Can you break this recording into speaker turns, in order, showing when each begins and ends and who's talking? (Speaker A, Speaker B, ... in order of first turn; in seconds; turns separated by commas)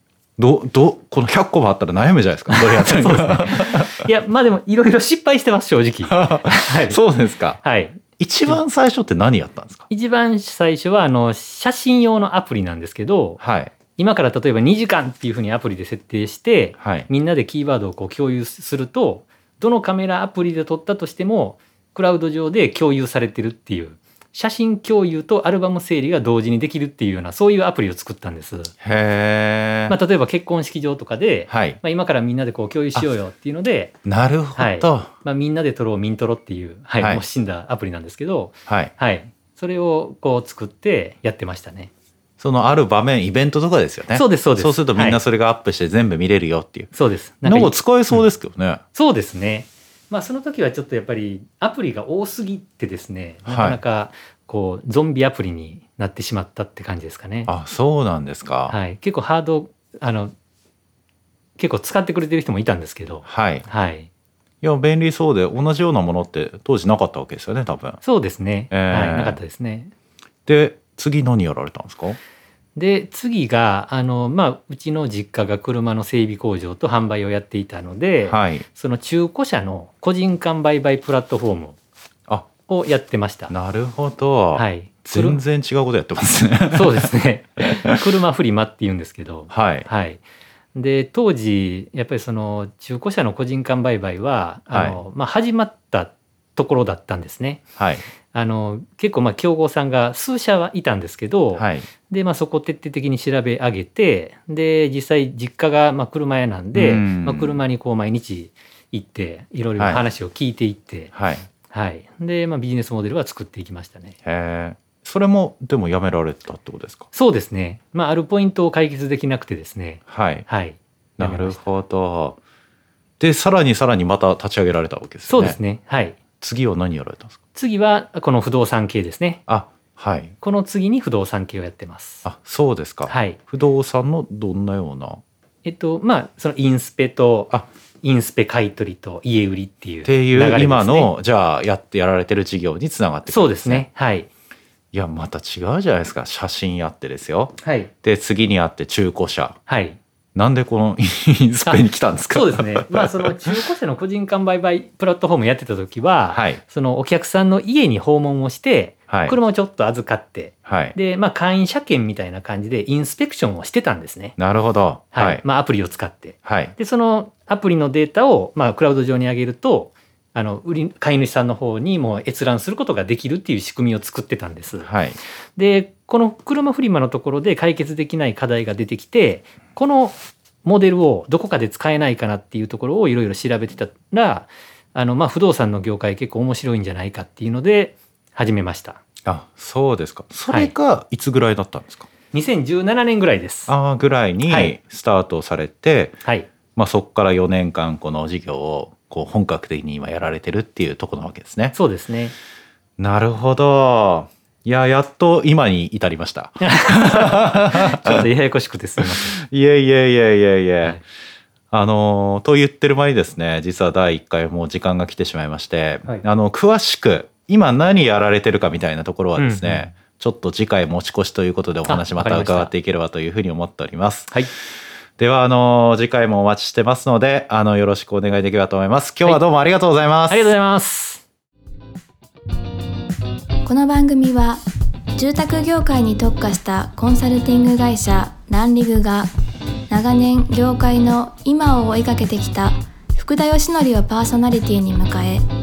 Speaker A: 0.4-4.1, Speaker B: 2.5-7.0, Speaker A: 6.0-7.6, Speaker B: 7.6-8.6, Speaker A: 8.2-9.8, Speaker B: 9.9-13.4, Speaker A: 13.4-13.7, Speaker B: 13.9-28.7, Speaker A: 16.8-17.1, Speaker A: 28.8-29.9, Speaker B: 29.9-33.9, Speaker A: 31.5-31.8, Speaker A: 34.0-35.1, Speaker B: 34.5-41.9, Speaker A: 38.7-38.9, Speaker A: 42.4-46.9, Speaker B: 44.1-45.2, Speaker B: 46.9-48.3, Speaker A: 47.4-48.8, Speaker B: 48.9-57.5, Speaker A: 53.5-53.8, Speaker A: 57.5-58.8, Speaker B: 58.7-60.3, Speaker B: 61.6-64.1, Speaker A: 63.2-63.7, Speaker A: 64.6-68.0, Speaker B: 68.0-69.9, Speaker A: 68.7-69.4, Speaker A: 70.5-72.2, Speaker B: 72.8-81.8, Speaker A: 78.2-78.6, Speaker B: 82.7-83.5, Speaker A: 83.5-88.0, Speaker B: 84.5-85.4, Speaker B: 86.7-90.2, Speaker A: 89.5-89.9, Speaker B: 90.7-97.6, Speaker A: 94.7-95.0, Speaker A: 97.8-98.0, Speaker B: 98.3-111.1, Speaker A: 101.5-101.9, Speaker A: 106.7-107.6, Speaker A: 109.8-110.0, Speaker A: 111.1-111.5, Speaker B: 111.7-114.2, Speaker A: 114.2-117.1, Speaker B: 117.1-121.7, Speaker A: 120.1-120.5, Speaker A: 121.2-122.4, Speaker A: 123.2-125.6, Speaker B: 125.3-126.2, Speaker A: 126.4-127.4, Speaker B: 127.5-129.4, Speaker A: 129.5-130.3, Speaker B: 130.4-132.2, Speaker A: 132.2-135.2, Speaker B: 133.1-133.4, Speaker B: 135.6-141.1, Speaker A: 140.0-143.8, Speaker B: 143.2-144.3, Speaker A: 144.9-149.6, Speaker B: 147.6-147.9, Speaker B: 149.7-150.0, Speaker A: 150.3-153.6, Speaker B: 151.7-164.4, Speaker A: 156.3-156.6, Speaker A: 159.1-159.3, Speaker A: 160.7-160.9, Speaker A: 164.4-165.4, Speaker B: 165.1-174.9, Speaker A: 166.4-166.7, Speaker A: 174.8-175.2, Speaker B: 175.6-189.0, Speaker A: 189.2-192.1, Speaker B: 190.5-190.7, Speaker B: 192.3-193.7, Speaker A: 193.7-196.2, Speaker B: 194.4-194.7, Speaker B: 196.2-196.5, Speaker A: 196.7-201.7, Speaker B: 201.7-202.3, Speaker A: 203.0-208.3, Speaker B: 206.6-209.4, Speaker A: 209.0-211.0, Speaker A: 211.7-224.3, Speaker B: 219.3-219.9, Speaker B: 221.8-222.7, Speaker A: 225.2-230.5, Speaker B: 230.3-231.2, Speaker C: 233.6-234.6, Speaker C: 235.2-239.3, Speaker C: 239.9-245.4